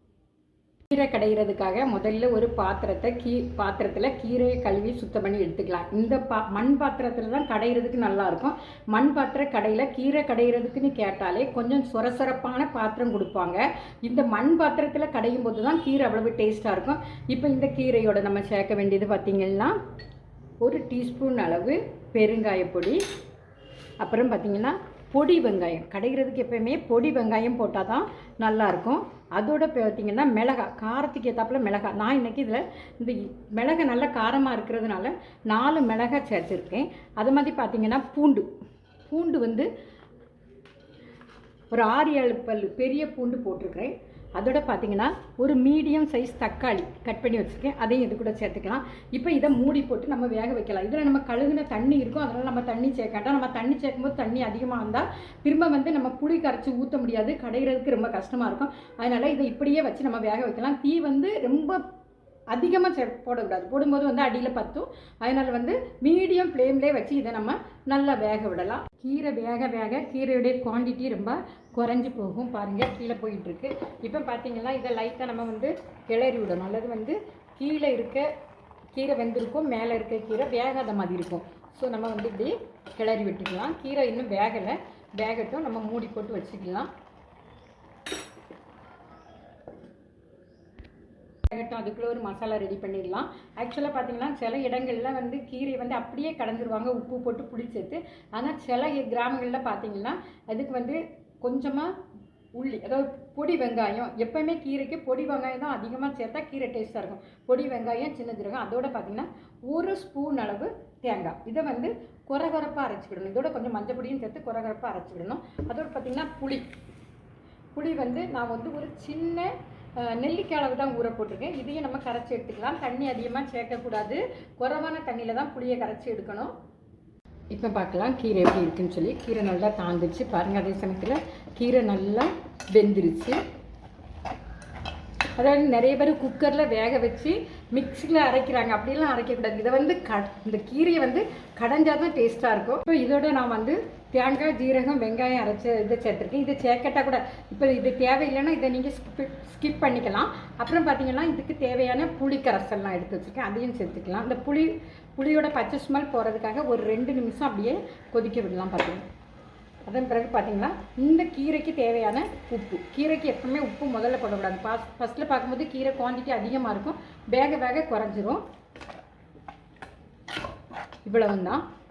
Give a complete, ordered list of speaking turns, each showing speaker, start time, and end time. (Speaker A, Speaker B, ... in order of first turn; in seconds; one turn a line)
Speaker A: 0.9-19.8
Speaker A: 20.6-23.0
Speaker A: 24.0-38.5
Speaker A: 39.1-39.7
Speaker A: 41.7-61.8
Speaker A: 62.5-78.3
Speaker A: 78.9-86.9
Speaker A: 91.5-101.9
Speaker A: 102.5-116.7
Speaker A: 117.8-126.5
Speaker A: 127.5-133.4
Speaker A: 135.4-159.0
Speaker A: 159.8-168.4
Speaker A: 171.0-171.6